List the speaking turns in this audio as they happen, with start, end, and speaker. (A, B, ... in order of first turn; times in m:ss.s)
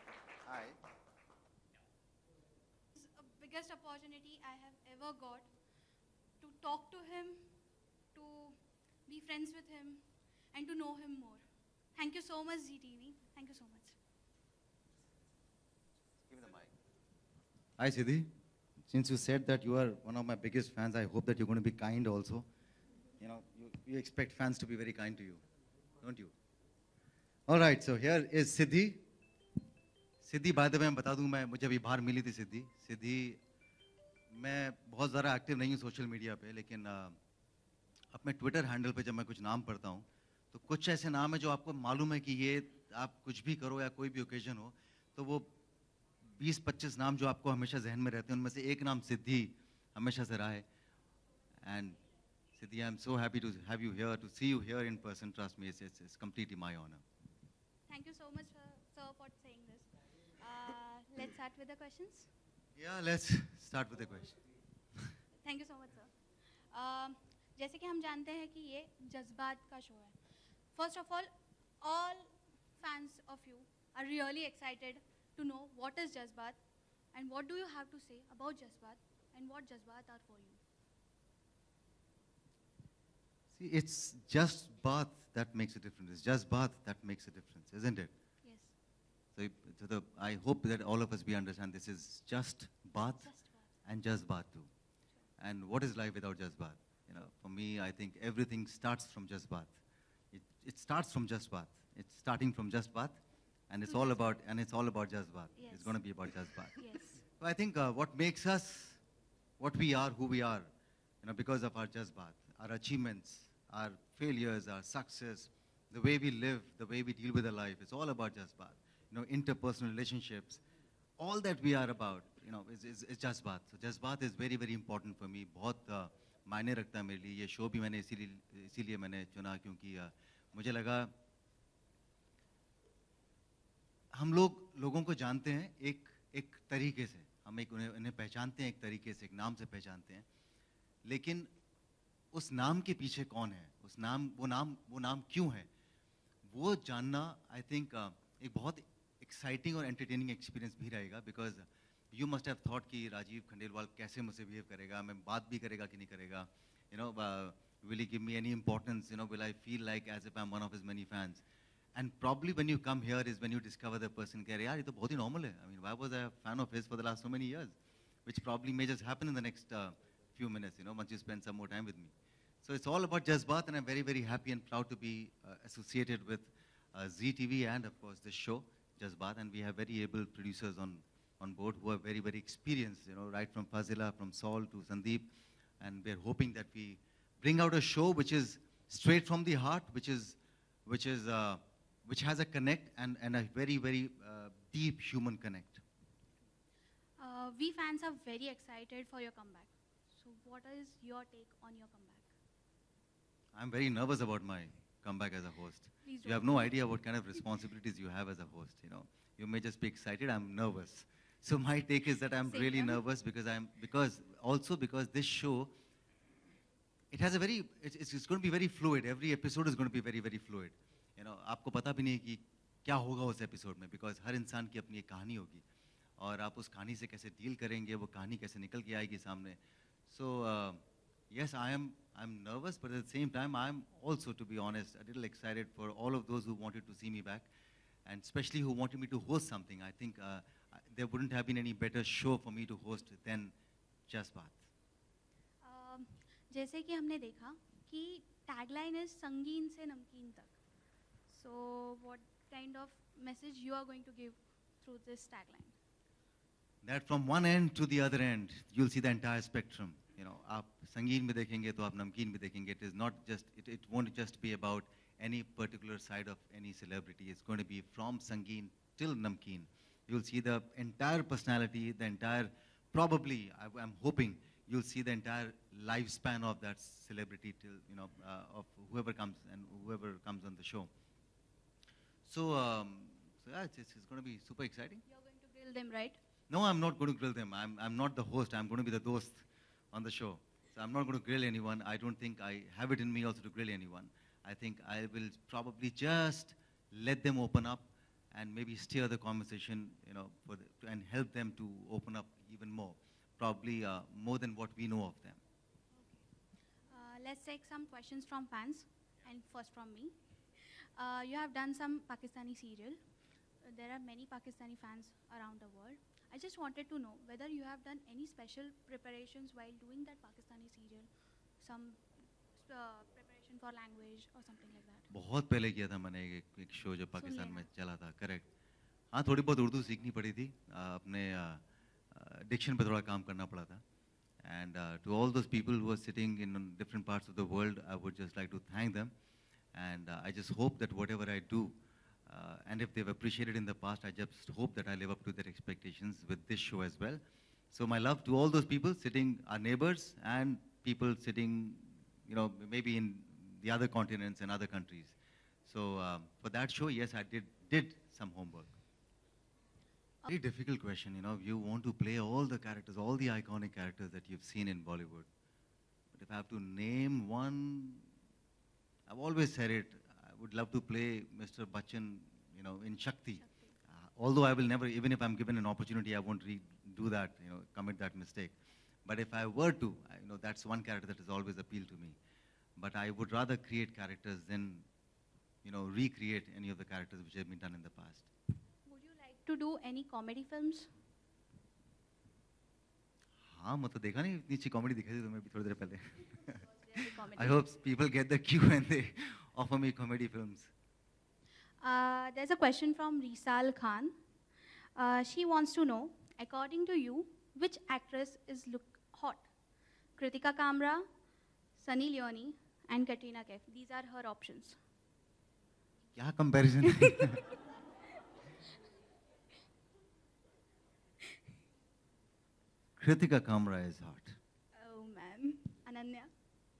0:00.4-0:00.8 A
0:03.0-0:05.5 B
0:06.4-0:07.4 B
0:08.1-0:10.0 B
0:10.5-0:11.4 B
0:12.0-0:14.0 B
0:16.3-0:16.7 A
0:17.8-0:18.3 A
0:18.9-0:22.5 A
0:23.2-0:25.4 A
0:26.0-0:26.3 A
0:27.5-0:29.0 A
0:30.2-0:33.4 A
0:34.3-0:37.2 A
0:38.1-0:45.5 A
0:46.2-0:50.7 A
0:51.6-0:52.0 A
0:52.5-0:57.0 A
0:57.9-1:02.3 B
1:02.8-1:04.4 A
1:05.4-1:06.1 B
1:06.7-1:10.2 B
1:10.8-1:11.3 B
1:11.8-1:16.6 B
1:17.1-1:20.6 B
1:23.5-1:28.1 A
1:28.4-1:28.7 B
1:29.4-1:33.3 A
1:33.1-1:33.7 B
1:33.8-1:34.7 A
1:35.4-1:39.8 A
1:40.3-1:46.8 A
1:43.9-1:44.2 B
1:45.6-1:46.0 B
1:46.7-1:47.2 B
1:47.4-1:49.0 A
1:49.6-1:50.7 A
1:51.2-2:00.6 A
2:01.2-2:11.1 A
2:14.1-2:20.3 A
2:21.0-2:21.5 A
2:22.3-2:25.7 A
2:26.4-2:41.4 A
2:42.0-3:05.3 A
3:05.8-3:15.8 A
3:17.2-3:22.3 B
3:23.5-3:35.7 A
3:26.0-3:26.8 B
3:32.5-3:33.0 B
3:37.1-3:45.6 A
3:46.2-3:57.5 A
3:58.0-4:03.5 A
4:04.1-4:04.6 A
4:05.6-4:10.6 B
4:11.3-4:15.7 B
4:16.8-4:40.9 A
4:42.3-4:45.0 A
4:45.1-4:46.2 B
4:46.5-5:05.4 A
5:05.9-5:06.2 B
5:06.9-5:13.0 B
5:13.6-5:21.1 B
5:21.6-5:22.0 B
5:22.6-5:25.1 B
5:25.1-5:28.5 A
5:27.2-5:27.7 B
5:29.1-5:33.8 A
5:34.4-5:39.1 A
5:39.7-5:55.2 A
5:55.7-5:58.7 A
6:00.3-6:05.3 A
6:06.1-6:08.0 A
6:09.1-6:13.4 A
6:13.4-6:13.7 B
6:14.0-6:22.2 A
6:22.8-6:24.9 A
6:25.6-6:28.3 A
6:28.9-6:30.9 B
6:33.4-6:40.7 A
6:36.8-6:37.7 B
6:41.8-6:44.1 B
6:45.0-6:49.5 B
6:50.2-6:51.1 B
6:51.8-6:54.8 B
6:56.2-6:57.5 A
7:03.0-7:04.4 A
7:04.8-7:06.3 B